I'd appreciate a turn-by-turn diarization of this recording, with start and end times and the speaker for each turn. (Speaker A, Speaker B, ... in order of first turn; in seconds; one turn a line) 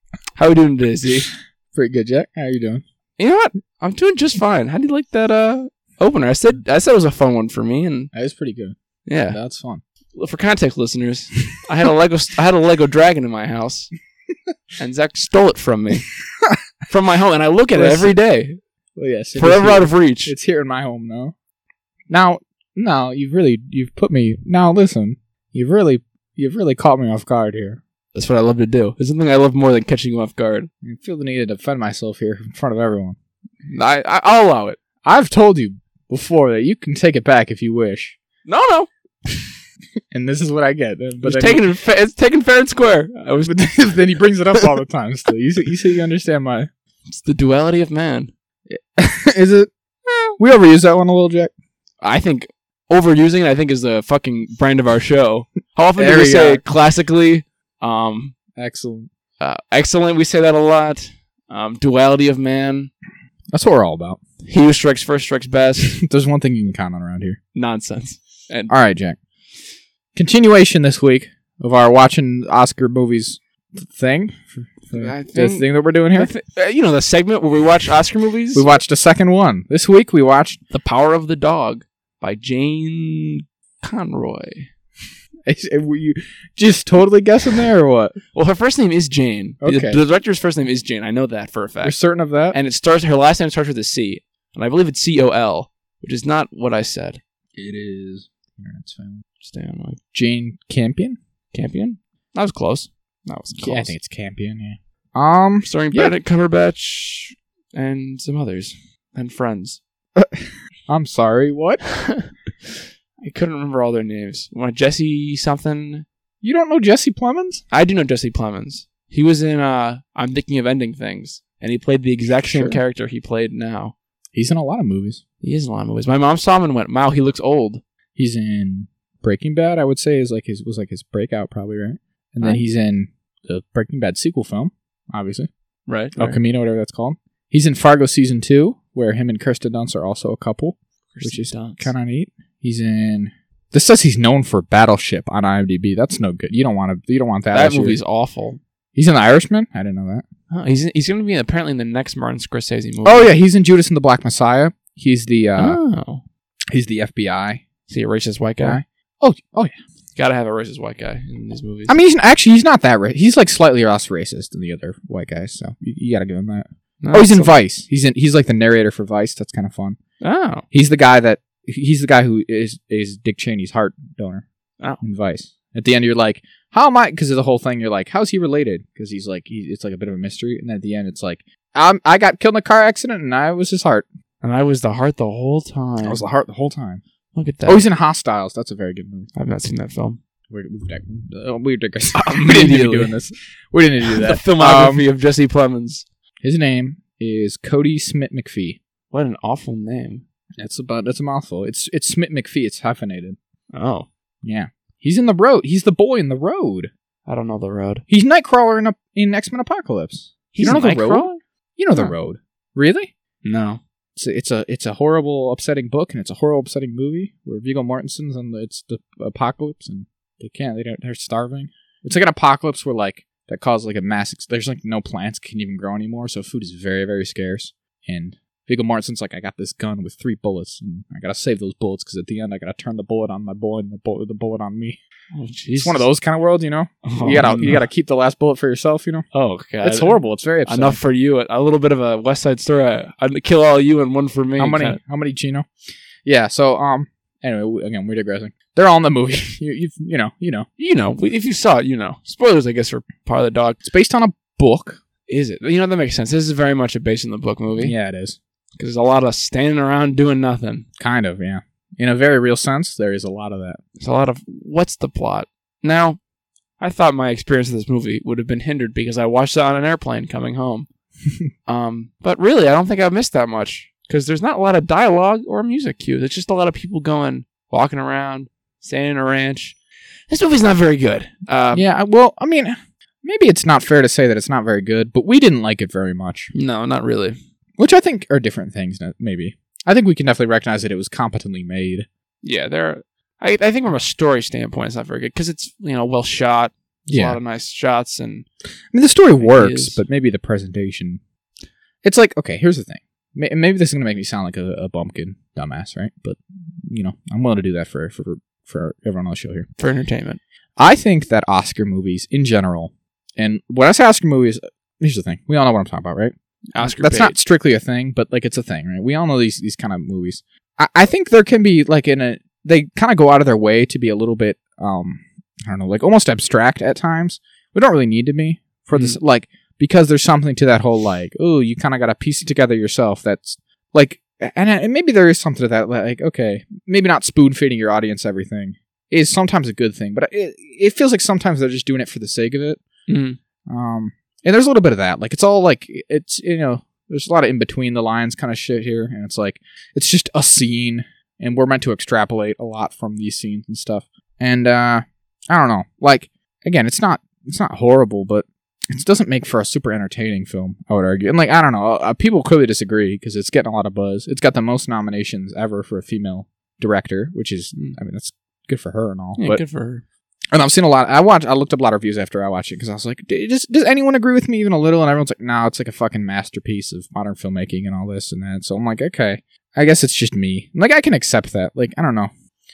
Speaker A: 0.4-1.3
Speaker B: 1.7-2.8
Speaker A: 3.2-8.1
Speaker B: 8.1-8.8
Speaker A: 9.1-9.4
Speaker B: 9.3-9.8
Speaker A: 10.1-13.9
Speaker A: 14.8-16.1
Speaker A: 16.9-18.6
Speaker B: 17.8-18.1
Speaker B: 19.0-21.4
Speaker A: 19.4-20.3
Speaker B: 22.1-27.8
Speaker A: 28.1-30.7
Speaker B: 30.8-33.2
Speaker A: 33.7-34.8
Speaker B: 35.0-38.2
Speaker A: 38.5-38.9
Speaker B: 40.1-41.6
Speaker A: 41.2-43.8
Speaker B: 43.5-46.7
Speaker A: 47.1-48.3
Speaker B: 48.7-49.7
Speaker B: 50.4-51.5
Speaker A: 52.0-58.4
Speaker B: 56.0-56.6
Speaker B: 58.6-59.1
Speaker A: 59.4-62.9
Speaker B: 63.5-64.2
Speaker A: 64.4-66.0
Speaker B: 65.8-67.4
Speaker A: 67.5-68.7
Speaker B: 68.7-69.2
Speaker B: 70.2-76.3
Speaker A: 74.9-78.7
Speaker B: 78.5-80.6
Speaker A: 80.7-84.7
Speaker B: 85.5-88.2
Speaker A: 88.3-92.0
Speaker B: 89.6-90.0
Speaker B: 91.8-92.6
Speaker A: 92.5-97.2
Speaker B: 97.5-99.2
Speaker A: 99.4-100.0
Speaker B: 100.1-101.2
Speaker A: 101.5-103.9
Speaker B: 103.6-106.1
Speaker A: 105.6-109.8
Speaker B: 110.2-111.8
Speaker A: 111.8-116.1
Speaker B: 116.4-117.6
Speaker A: 117.7-124.0
Speaker B: 122.5-122.8
Speaker B: 124.3-125.2
Speaker A: 125.4-127.8
Speaker B: 128.2-135.5
Speaker A: 135.9-136.4
Speaker B: 136.2-148.0
Speaker A: 141.1-141.9
Speaker A: 147.5-148.6
Speaker B: 148.9-150.2
Speaker A: 150.5-153.3
Speaker B: 153.0-155.8
Speaker A: 155.6-156.2
Speaker B: 156.7-157.6
Speaker A: 157.9-158.8
Speaker B: 158.6-159.8
Speaker A: 160.2-162.0
Speaker B: 161.9-170.0
Speaker A: 167.0-167.5
Speaker A: 170.2-170.7
Speaker B: 170.7-174.4
Speaker B: 175.0-184.1
Speaker A: 184.4-186.3
Speaker B: 186.0-187.0
Speaker A: 187.3-187.9
Speaker B: 187.7-189.3
Speaker A: 189.3-190.2
Speaker B: 190.5-195.1
Speaker A: 192.1-193.2
Speaker A: 194.0-196.1
Speaker B: 196.4-198.8
Speaker A: 199.1-200.2
Speaker B: 200.6-203.4
Speaker A: 203.7-204.1
Speaker B: 204.4-206.9
Speaker A: 207.3-208.0
Speaker B: 208.1-213.1
Speaker A: 210.6-211.4
Speaker A: 213.4-213.8
Speaker B: 214.2-235.0
Speaker A: 235.3-236.1
Speaker B: 235.8-239.2
Speaker A: 237.1-237.9
Speaker A: 239.3-245.0
Speaker B: 239.8-241.0
Speaker B: 244.6-245.7
Speaker B: 246.2-250.7
Speaker A: 250.8-253.8
Speaker B: 253.8-255.0
Speaker A: 255.3-257.9
Speaker B: 257.8-258.4
Speaker A: 258.8-260.9
Speaker B: 261.0-263.8
Speaker A: 264.0-266.2
Speaker A: 266.8-270.9
Speaker A: 271.7-279.8
Speaker A: 280.3-281.9
Speaker B: 281.7-286.5
Speaker A: 286.5-287.4
Speaker B: 287.8-292.1
Speaker A: 292.4-298.5
Speaker B: 297.1-297.4
Speaker B: 298.9-301.2
Speaker A: 299.4-300.0
Speaker B: 302.0-309.7
Speaker A: 309.8-310.4
Speaker B: 310.8-342.8
Speaker A: 316.7-317.4
Speaker A: 343.1-343.4
Speaker B: 343.7-369.6
Speaker A: 369.4-370.0
Speaker B: 370.5-382.3